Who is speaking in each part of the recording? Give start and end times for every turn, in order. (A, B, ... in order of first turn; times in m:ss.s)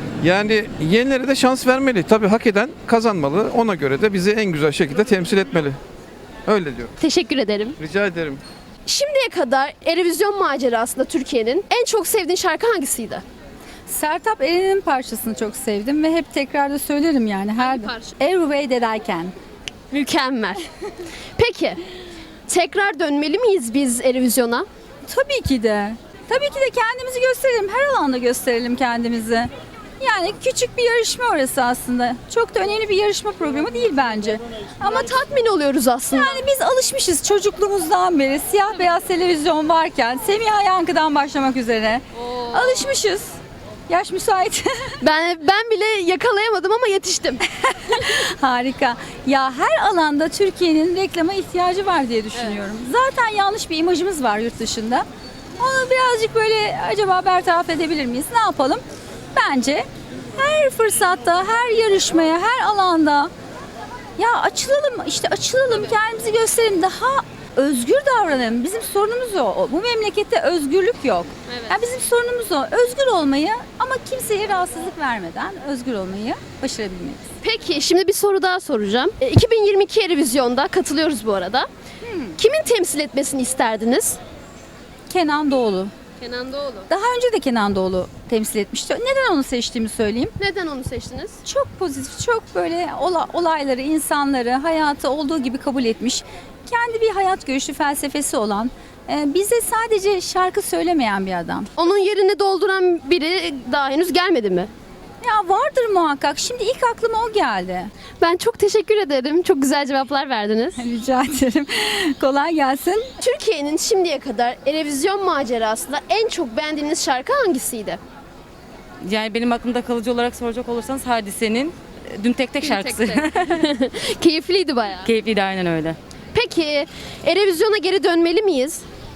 0:00.2-0:05.8 A
0:06.5-0:06.9 A
0:07.0-0:07.8 B
0:07.8-0:08.4 A
0:08.8-0:13.2 B
0:13.9-0:19.3 C
0:17.6-0:18.1 B
0:19.9-0:20.6 B
0:21.4-0:21.8 B
0:22.5-0:24.6 B
0:25.0-0:35.1 C
0:34.8-0:36.4 B
0:36.1-0:43.4 C
0:42.2-0:43.0 B
0:43.9-0:44.9 C
0:45.0-0:47.4 B
0:47.6-0:55.0 C
0:52.3-0:52.6 B
0:55.6-1:03.3 C
1:04.2-1:17.2 C
1:11.5-1:11.8 B
1:17.4-1:21.7 B
1:22.0-1:22.4 C
1:22.4-1:24.2 B
1:25.1-1:25.9 C
1:26.2-1:26.9 B
1:26.9-1:30.3 C
1:30.4-1:31.4 B
1:31.4-1:41.7 C
1:41.8-1:44.7 B
1:45.2-1:47.9 C
1:48.2-1:50.8 B
1:50.8-1:53.1 C
1:53.2-1:58.0 B
1:59.0-2:03.6 D
2:02.6-2:05.1 B
2:05.0-2:06.0 D
2:06.3-2:08.8 B